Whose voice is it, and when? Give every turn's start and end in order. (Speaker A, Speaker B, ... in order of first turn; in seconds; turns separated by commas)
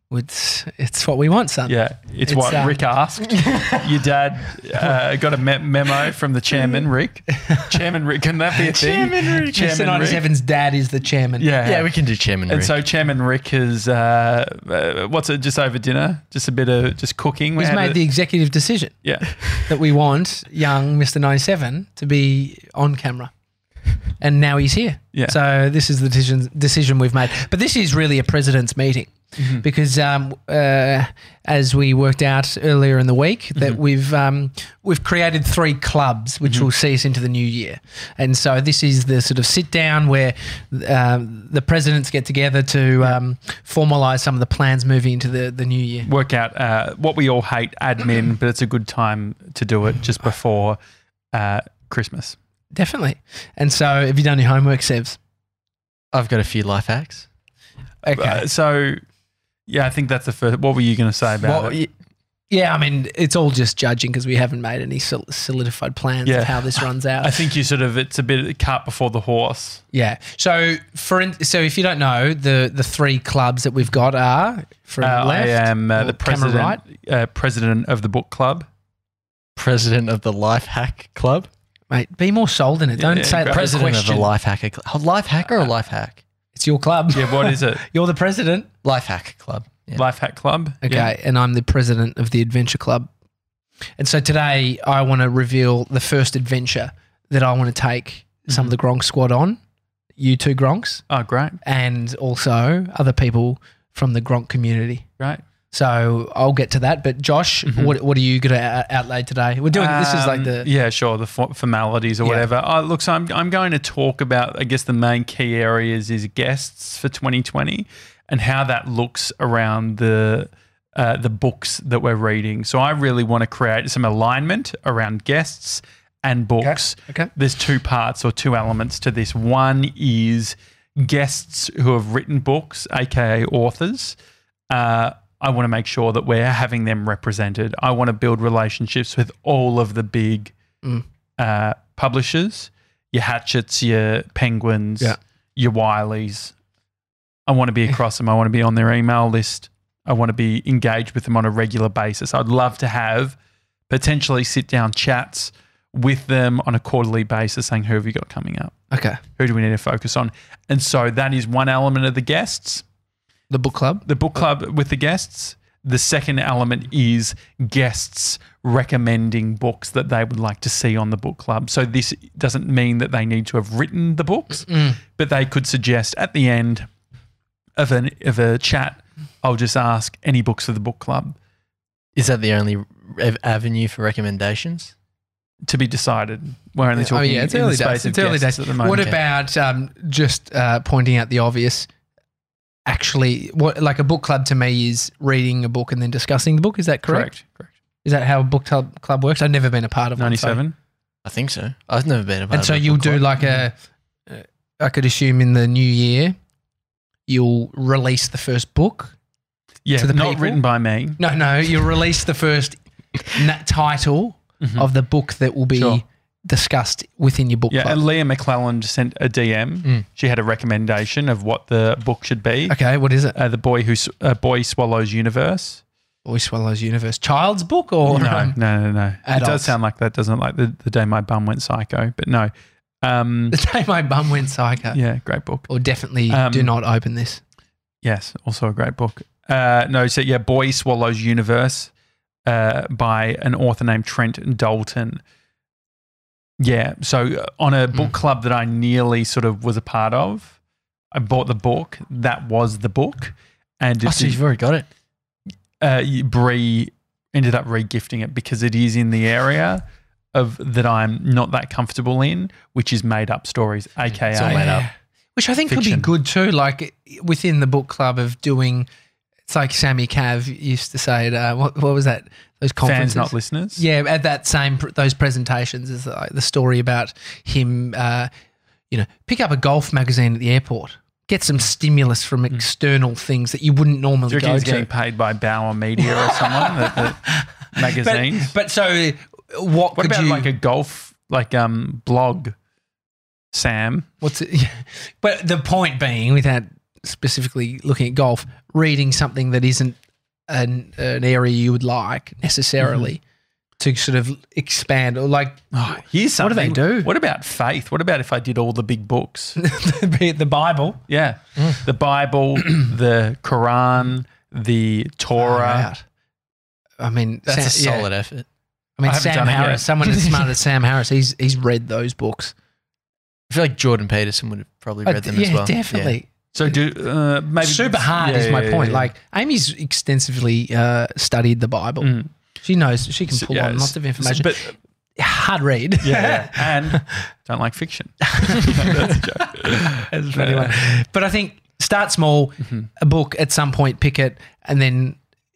Speaker A: 0.1-2.8, Speaker B: 1.7-10.2, Speaker C: 3.3-4.0, Speaker A: 7.3-7.7, Speaker C: 8.7-9.5, Speaker A: 8.7-11.5, Speaker B: 11.4-11.9, Speaker C: 11.6-12.7, Speaker B: 12.5-18.0, Speaker A: 17.6-18.9, Speaker B: 19.0-19.6, Speaker A: 19.6-23.3, Speaker A: 24.2-46.1, Speaker B: 29.4-29.6, Speaker B: 46.1-50.8, Speaker B: 51.3-52.4, Speaker A: 52.7-55.2, Speaker C: 56.1-57.3, Speaker A: 58.0-58.5, Speaker B: 58.2-59.0, Speaker B: 59.7-61.8, Speaker C: 61.4-61.9, Speaker A: 62.5-67.5, Speaker B: 66.2-69.8, Speaker A: 69.9-76.8, Speaker B: 75.0-78.7, Speaker C: 79.6-81.5, Speaker A: 81.9-84.3, Speaker B: 83.0-84.1, Speaker C: 83.5-86.2, Speaker A: 86.5-88.7, Speaker B: 87.1-87.8, Speaker C: 88.8-90.0, Speaker B: 90.0-91.1, Speaker A: 90.8-93.1, Speaker A: 94.0-99.6, Speaker B: 98.5-98.8, Speaker A: 100.2-101.0, Speaker B: 101.1-101.6, Speaker A: 101.6-105.1, Speaker A: 105.7-110.7, Speaker B: 107.7-108.0, Speaker B: 109.7-134.2, Speaker A: 112.2-112.5, Speaker A: 126.6-127.3, Speaker B: 134.7-140.5, Speaker B: 141.4-146.5, Speaker B: 147.5-153.4, Speaker B: 153.9-158.8, Speaker A: 158.9-159.2, Speaker B: 159.4-162.8, Speaker A: 163.5-164.0, Speaker B: 164.1-176.9, Speaker A: 174.7-175.0, Speaker B: 177.8-181.4, Speaker C: 182.2-184.9, Speaker B: 185.7-189.2, Speaker A: 187.0-191.9, Speaker A: 192.9-197.3, Speaker B: 197.1-197.7, Speaker A: 198.0-200.6, Speaker B: 200.2-200.7, Speaker C: 201.2-203.3, Speaker A: 202.5-203.8, Speaker A: 204.3-206.4, Speaker A: 207.3-209.2, Speaker B: 209.8-211.2, Speaker A: 210.0-210.6, Speaker A: 211.2-218.0, Speaker B: 214.6-214.9, Speaker B: 215.8-216.0, Speaker B: 217.7-222.8, Speaker A: 222.7-223.4, Speaker B: 223.3-225.8, Speaker A: 226.2-228.6, Speaker B: 228.1-232.5, Speaker A: 229.2-229.7, Speaker B: 233.0-233.6, Speaker A: 233.5-235.0, Speaker B: 234.9-235.7, Speaker A: 235.7-237.4, Speaker B: 236.3-236.7, Speaker B: 238.0-241.9, Speaker B: 242.5-245.2, Speaker B: 246.6-250.5, Speaker B: 251.1-254.4, Speaker C: 254.0-254.9, Speaker B: 255.8-264.7, Speaker C: 264.3-264.9, Speaker A: 264.4-268.9, Speaker B: 265.7-266.1, Speaker A: 269.5-278.3, Speaker B: 272.8-273.8, Speaker A: 278.9-284.9, Speaker B: 284.3-288.5, Speaker A: 286.0-290.5, Speaker B: 290.0-292.6, Speaker B: 293.5-294.1, Speaker A: 294.2-300.0, Speaker A: 300.5-303.2, Speaker B: 302.8-303.1, Speaker A: 303.8-305.7, Speaker B: 305.7-309.6, Speaker A: 306.4-307.1, Speaker A: 309.6-311.0, Speaker B: 311.1-315.9, Speaker A: 315.4-316.0, Speaker A: 317.0-318.1, Speaker C: 317.5-318.5, Speaker A: 319.0-322.5, Speaker B: 319.1-319.9, Speaker C: 323.5-326.2, Speaker A: 325.1-326.8, Speaker B: 326.5-329.1, Speaker A: 327.6-337.1, Speaker B: 332.0-332.3, Speaker B: 333.3-334.8, Speaker B: 336.0-340.9, Speaker A: 338.3-345.2, Speaker B: 342.6-342.9